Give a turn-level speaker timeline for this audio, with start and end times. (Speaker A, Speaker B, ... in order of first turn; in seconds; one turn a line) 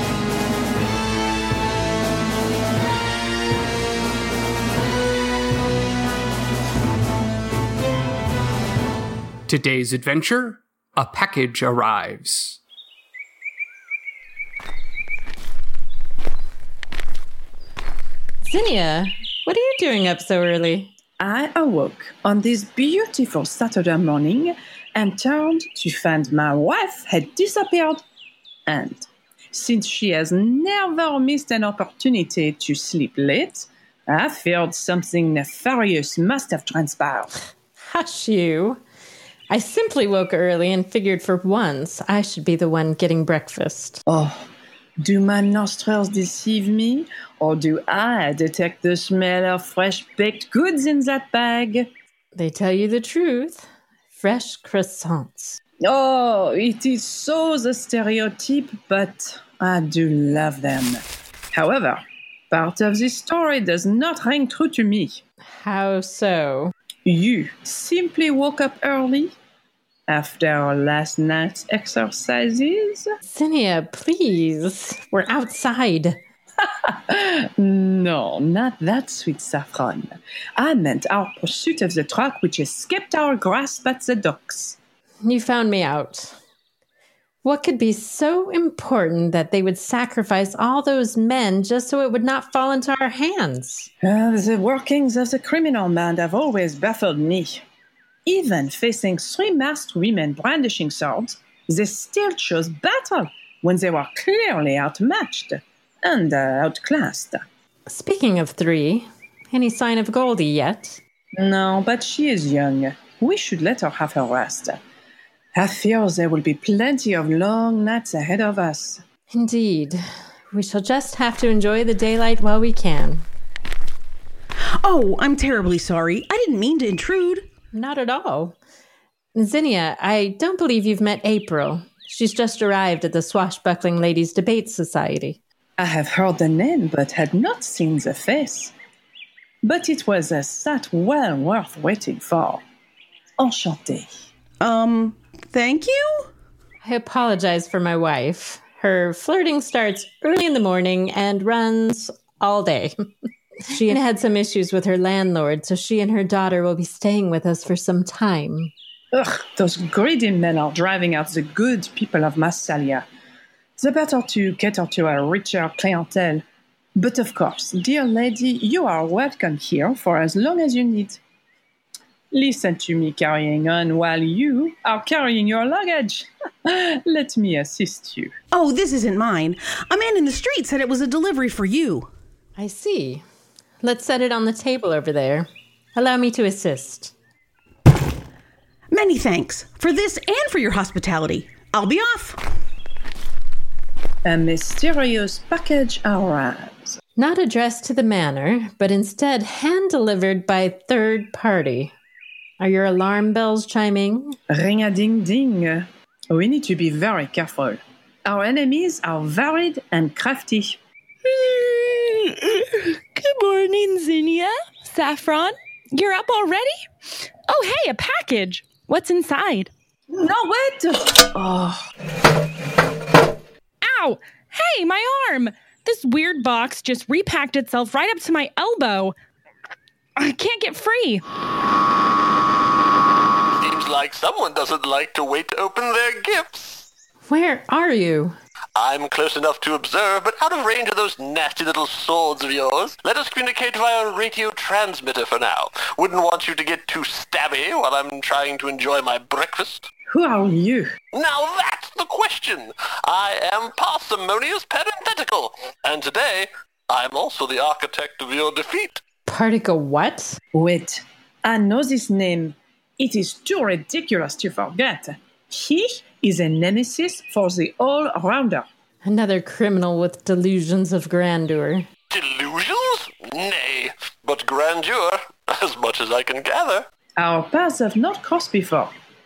Speaker A: 9.5-12.6
Speaker B: 18.4-20.9
Speaker C: 21.2-28.0
Speaker C: 28.7-37.3
Speaker B: 37.9-38.8
Speaker B: 39.5-44.0
Speaker C: 44.0-44.4
Speaker C: 45.0-51.9
Speaker B: 52.3-55.6
Speaker C: 55.8-65.2
Speaker B: 65.6-66.7
Speaker C: 67.0-69.3
Speaker C: 70.1-73.0
Speaker B: 73.3-76.2
Speaker C: 76.9-84.8
Speaker B: 85.2-86.3
Speaker B: 87.4-93.9
Speaker C: 94.0-97.6
Speaker C: 98.2-107.4
Speaker B: 107.9-111.0
Speaker C: 111.3-114.8
Speaker C: 115.5-119.0
Speaker B: 119.3-120.0
Speaker B: 120.5-123.2
Speaker D: 124.8-127.5
Speaker B: 127.7-128.6
Speaker B: 129.3-135.4
Speaker C: 135.8-138.7
Speaker C: 139.6-142.6
Speaker C: 143.4-144.1
Speaker D: 144.6-146.3
Speaker B: 146.8-152.9
Speaker B: 153.7-158.7
Speaker C: 159.1-163.0
Speaker C: 163.8-166.4
Speaker C: 166.9-171.2
Speaker C: 172.3-178.3
Speaker D: 178.5-182.1
Speaker B: 182.6-183.2
Speaker B: 183.8-187.1
Speaker D: 188.9-192.4
Speaker C: 194.2-196.9
Speaker B: 197.2-201.9
Speaker B: 202.6-204.3
Speaker C: 204.5-210.8
Speaker E: 211.2-216.7
Speaker E: 217.5-219.7
Speaker C: 220.1-221.8
Speaker E: 223.8-229.1
Speaker E: 230.2-231.2
Speaker F: 233.5-236.8
Speaker B: 237.3-238.3
Speaker F: 238.8-249.8
Speaker C: 250.1-250.9
Speaker F: 251.1-259.0
Speaker B: 259.2-260.4
Speaker C: 260.5-268.6
Speaker B: 269.0-271.9
Speaker F: 272.1-276.9
Speaker C: 277.2-278.9